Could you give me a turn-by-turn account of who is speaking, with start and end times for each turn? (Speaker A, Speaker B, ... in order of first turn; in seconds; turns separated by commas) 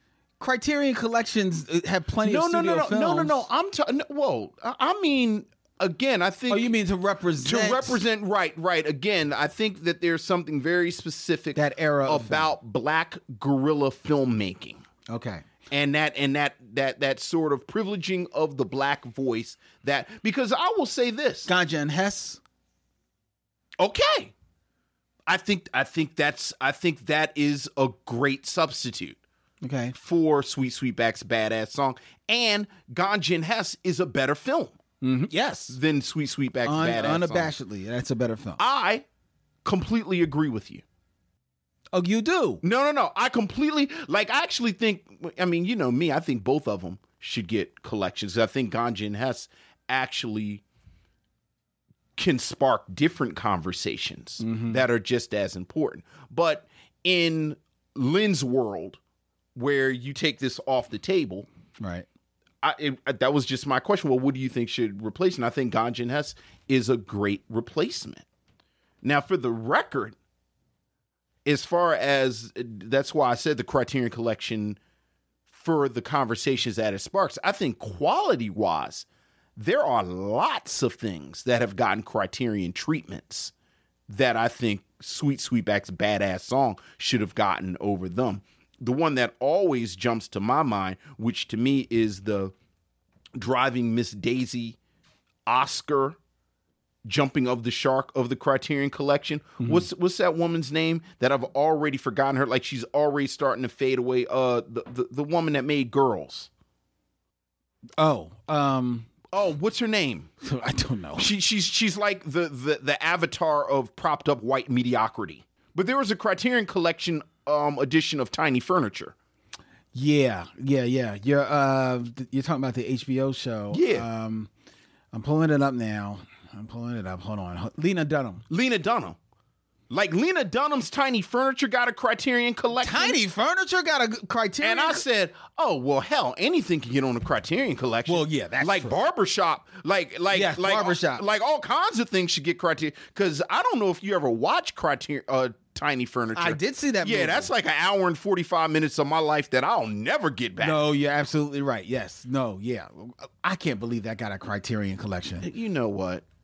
Speaker A: 0.4-3.5, Speaker B: 2.2-6.7, Speaker A: 6.5-8.0, Speaker B: 7.4-14.8, Speaker A: 11.6-12.5, Speaker A: 15.1-15.5, Speaker B: 15.7-21.5, Speaker A: 21.5-22.4, Speaker B: 23.8-24.3, Speaker B: 25.3-29.2, Speaker A: 29.6-29.9, Speaker B: 29.9-34.8, Speaker A: 35.0-35.8, Speaker B: 35.7-37.5, Speaker A: 36.6-38.6, Speaker B: 38.6-39.0, Speaker B: 39.6-40.8, Speaker A: 41.9-42.6, Speaker B: 42.6-50.6, Speaker B: 52.2-59.0, Speaker A: 54.4-54.8, Speaker B: 59.5-61.5, Speaker A: 61.8-62.1, Speaker B: 62.6-68.2, Speaker B: 69.0-70.2, Speaker B: 71.5-74.8, Speaker B: 75.5-83.5, Speaker B: 84.1-92.5, Speaker B: 93.3-94.8, Speaker B: 95.5-96.2, Speaker B: 97.0-106.5, Speaker A: 99.6-99.9, Speaker A: 108.0-109.1, Speaker B: 109.3-110.3, Speaker A: 110.4-111.3, Speaker B: 111.2-119.1, Speaker A: 119.9-124.5, Speaker B: 123.7-124.1, Speaker A: 125.1-128.4, Speaker B: 128.5-129.2, Speaker B: 129.9-133.2, Speaker A: 132.8-135.1, Speaker B: 134.6-150.8, Speaker A: 138.1-139.0, Speaker A: 140.3-141.2, Speaker A: 146.3-147.5, Speaker A: 150.6-155.5, Speaker B: 155.4-156.2